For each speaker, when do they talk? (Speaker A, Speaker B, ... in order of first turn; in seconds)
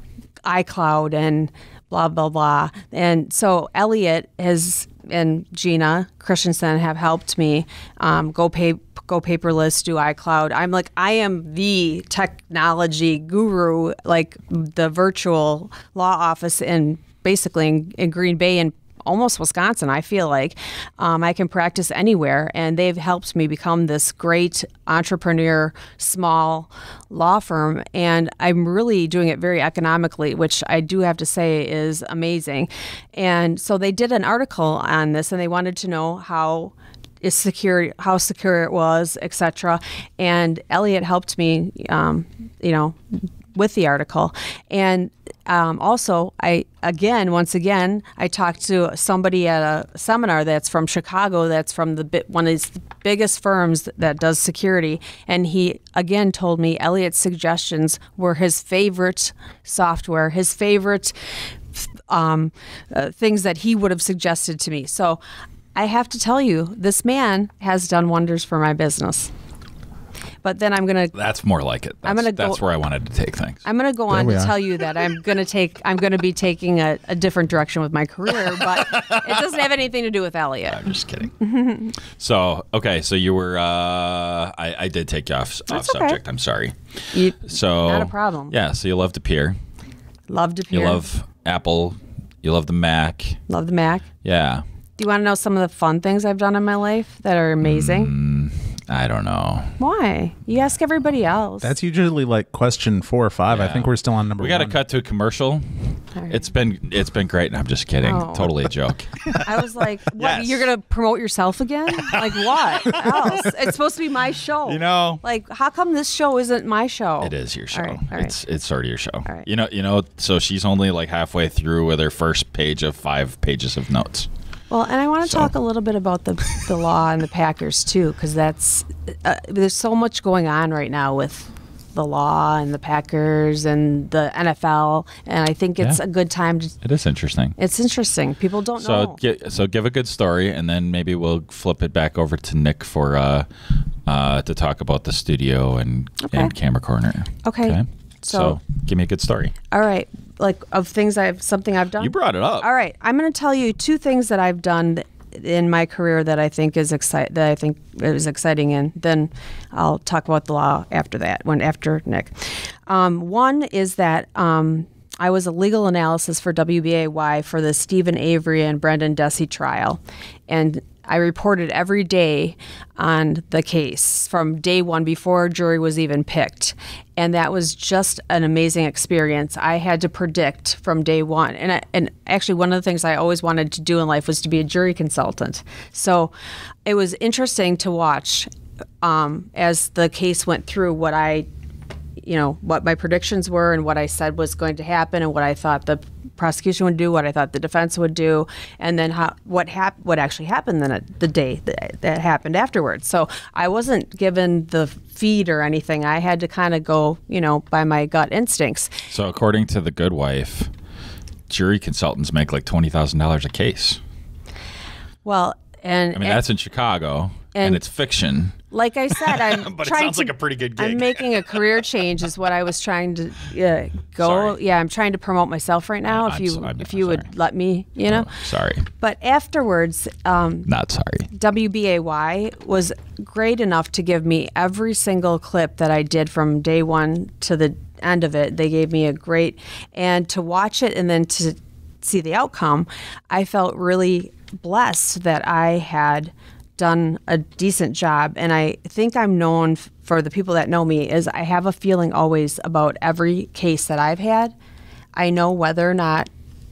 Speaker A: 0.4-61.1, 61.7-65.2, 65.7-69.3, 70.4-71.1, 72.0-72.6, 73.6-80.8, 81.4-81.9, 85.7-86.2, 87.1-88.5, 90.3-91.0, 93.5-94.0, 95.0-98.1, 99.8-101.7, 106.2-106.4, 108.0-108.5, 109.4-118.3, 124.7-136.7, 137.6-139.2, 146.2-146.5, 147.4-148.6, 149.7-186.3, 186.8-188.5, 189.0-191.5, 192.2-209.0, 215.2-216.4, 217.5-217.8, 218.7-228.3, 228.9-230.7, 231.3-254.5, 255.2-256.3
Speaker B: 71.1-73.6, 78.5-79.6, 80.7-81.4, 82.2-89.6, 90.7-93.4, 94.2-94.6, 97.6-99.7, 103.5-105.6, 106.3-110.7, 111.9-113.5, 114.7-115.2, 117.2-124.3, 125.2-125.5, 136.8-137.6, 138.8-143.4, 144.1-149.5, 152.0-152.7, 209.1-210.7, 211.5-214.0, 216.2-218.6, 219.1-221.6, 224.2-224.6, 226.1-227.3, 228.1-228.8, 230.7-231.3
Speaker C: 74.1-74.5, 101.6-104.8